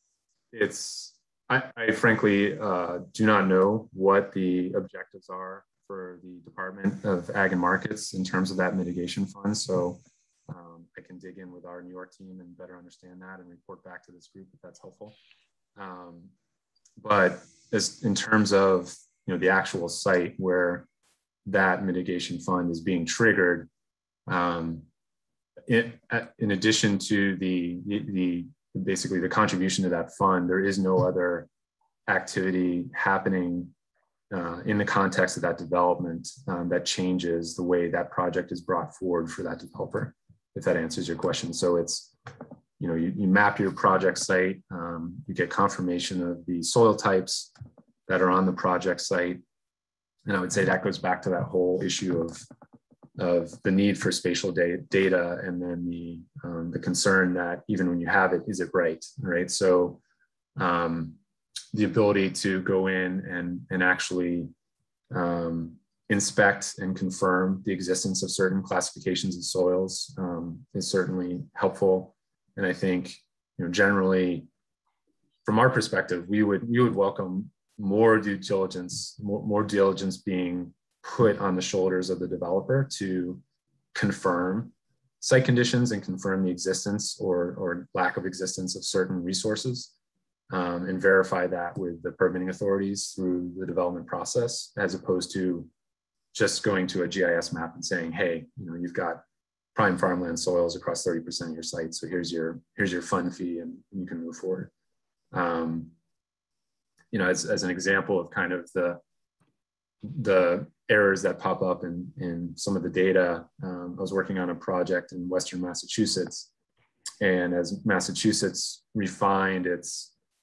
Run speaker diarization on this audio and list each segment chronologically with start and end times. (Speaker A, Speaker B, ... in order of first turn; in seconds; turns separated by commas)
Speaker A: 0.5-15.2, Speaker A: 15.8-16.3, Speaker A: 17.0-20.9, Speaker A: 21.4-23.7, Speaker A: 24.3-24.8, Speaker A: 25.7-31.5, Speaker A: 32.1-33.7, Speaker A: 34.3-42.1, Speaker A: 42.8-47.5, Speaker A: 48.1-49.4, Speaker A: 50.2-52.4, Speaker A: 53.2-60.0, Speaker A: 60.6-61.2, Speaker A: 61.7-64.5, Speaker A: 65.1-74.5, Speaker A: 75.4-83.4, Speaker A: 83.9-89.9, Speaker A: 90.5-95.7, Speaker A: 96.3-99.2, Speaker A: 99.7-104.7, Speaker A: 105.3-105.9, Speaker A: 107.1-109.0, Speaker A: 110.0-116.5, Speaker A: 117.2-120.1